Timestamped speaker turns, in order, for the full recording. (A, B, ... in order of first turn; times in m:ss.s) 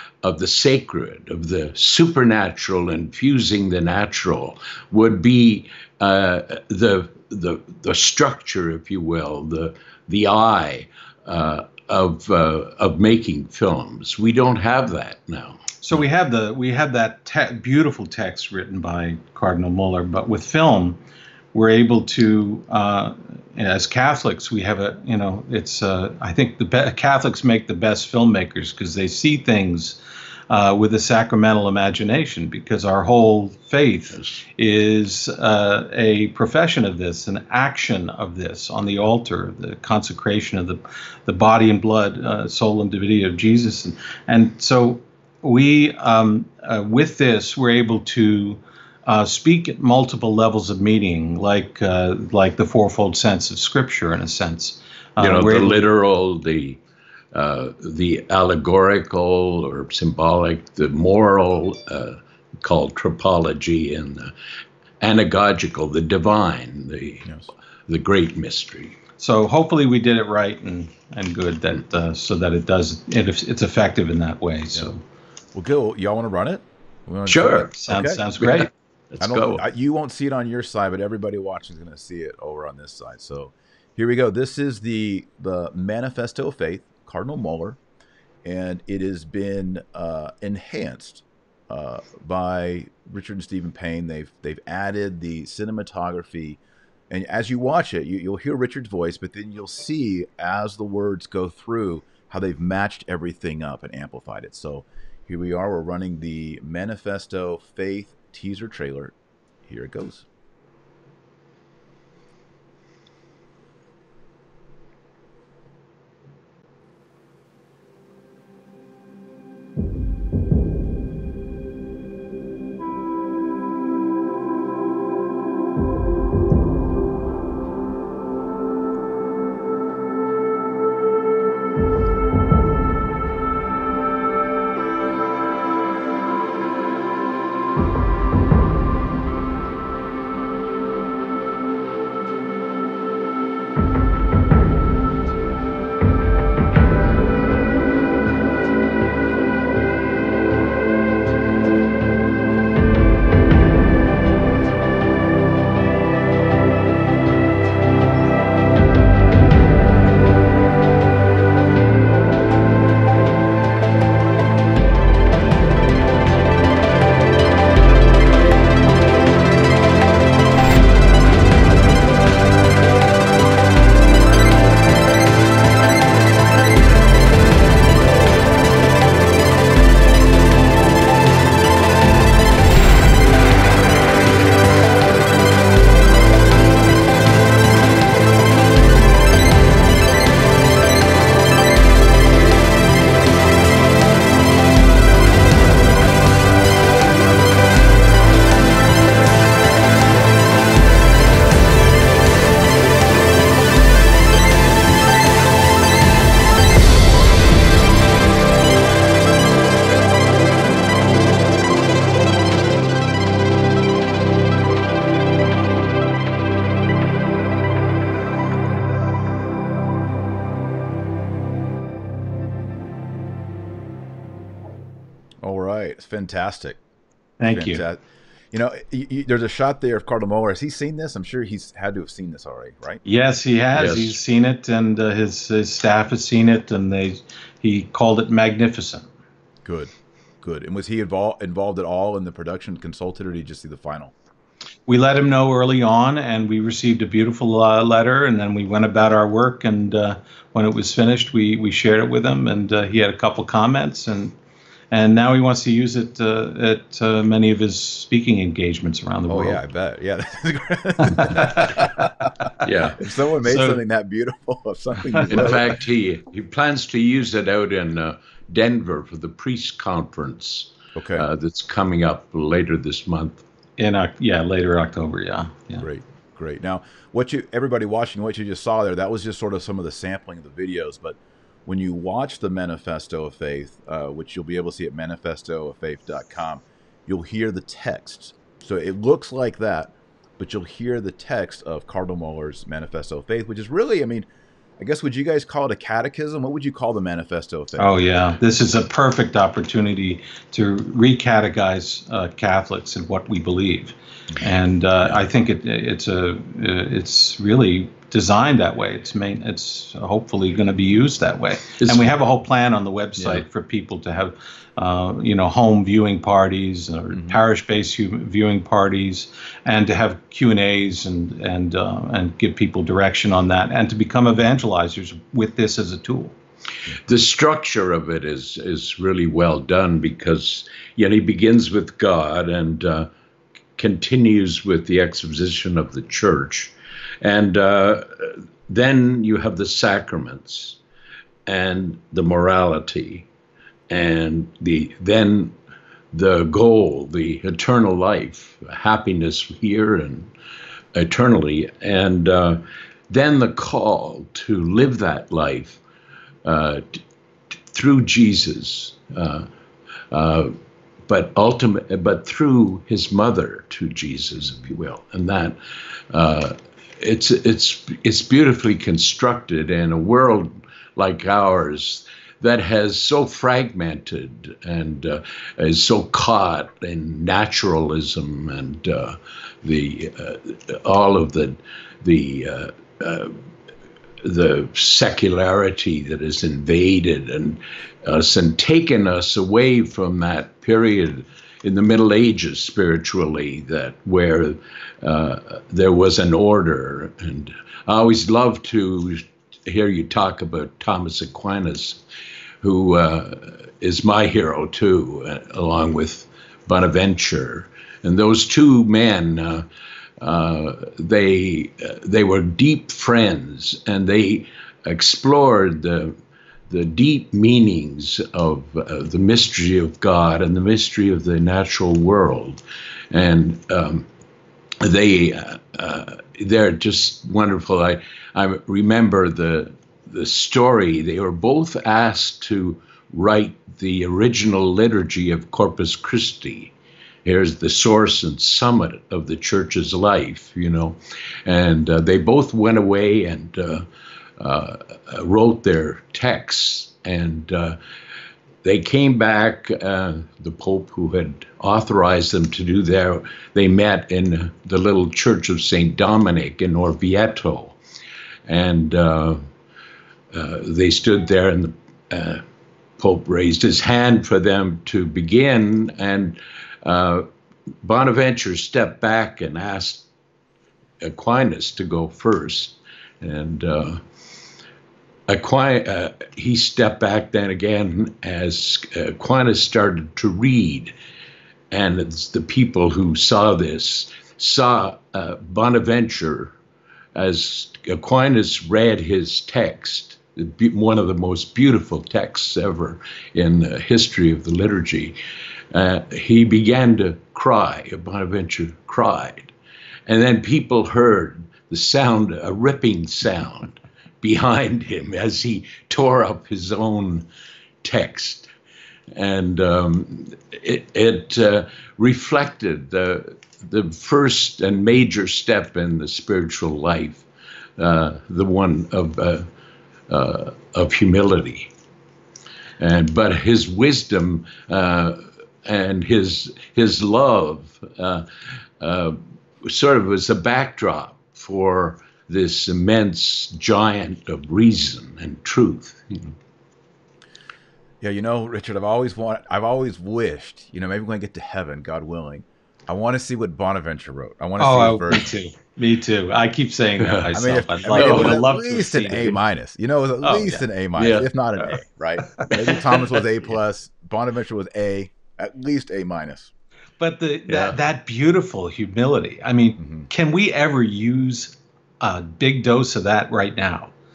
0:00.2-0:15.7 A
0:15.8-0:21.0 B
0:21.5-0:30.0 B
0:30.5-0:55.8 B
0:55.2-0:56.8 A
0:57.3-1:04.3 A
1:05.0-1:07.3 A
1:07.2-1:07.5 C
1:07.9-1:09.0 A
1:09.2-1:15.0 B
1:15.5-1:18.2 C
1:17.3-1:17.7 A
1:17.8-1:18.7 B
1:18.4-1:19.6 A
1:19.2-1:27.8 C
1:28.4-1:49.1 C
1:49.7-1:50.3 C
3:45.4-3:46.8 C
3:47.4-3:47.8 B
3:47.5-3:48.0 C
3:48.5-3:53.0 C
3:53.0-3:59.1 B
3:53.8-3:54.2 A
3:59.6-3:59.9 C
4:00.4-4:04.1 C
4:04.9-4:14.3 B
4:14.9-4:19.6 B
4:19.3-4:25.8 C
4:22.6-4:23.0 A
4:23.4-4:23.8 B
4:25.3-4:33.4 A
4:31.0-4:31.3 C
4:33.8-4:35.8 B
4:35.8-4:54.3 C
4:54.8-4:58.0 C
4:57.8-5:26.3 B
5:11.8-5:12.1 A
5:17.1-5:17.4 C
5:27.0-5:33.1 A
5:33.8-5:40.8 A
5:41.5-5:43.3 A
5:43.9-5:45.6 A
5:46.1-5:50.3 A
5:50.9-5:55.8 A
5:56.4-5:57.0 A
5:57.7-5:59.5 A
6:00.1-6:00.5 A
6:01.1-6:05.6 A
6:06.1-6:23.4 A
6:24.2-6:42.0 A
6:42.6-6:49.7 A
6:50.2-6:56.2 A
6:56.7-7:04.1 A
7:04.8-7:16.7 A
7:17.2-7:23.9 A
7:24.4-7:27.8 A
7:28.6-7:37.8 A
7:38.5-7:39.4 A
7:40.3-7:42.4 A
7:43.0-7:47.3 A
7:47.8-7:50.1 A
7:51.0-7:54.0 A
7:55.3-8:00.9 A
8:01.7-8:06.5 A
8:07.2-8:15.2 A
8:15.7-8:19.5 A
8:20.1-8:27.3 A
8:27.8-8:28.5 A
8:29.1-8:37.3 A
8:37.8-8:39.5 A
8:40.1-8:41.7 A
8:42.8-8:48.2 A
8:48.8-8:56.3 A
8:58.0-9:05.3 C
9:04.6-9:09.4 B
9:07.0-9:07.3 A
9:07.3-9:16.5 C
9:07.9-9:08.4 A
9:10.2-9:10.6 B
9:11.0-9:11.3 A
9:12.4-9:13.0 B
9:17.0-9:23.9 B
9:17.5-9:17.8 A
9:19.8-9:20.1 C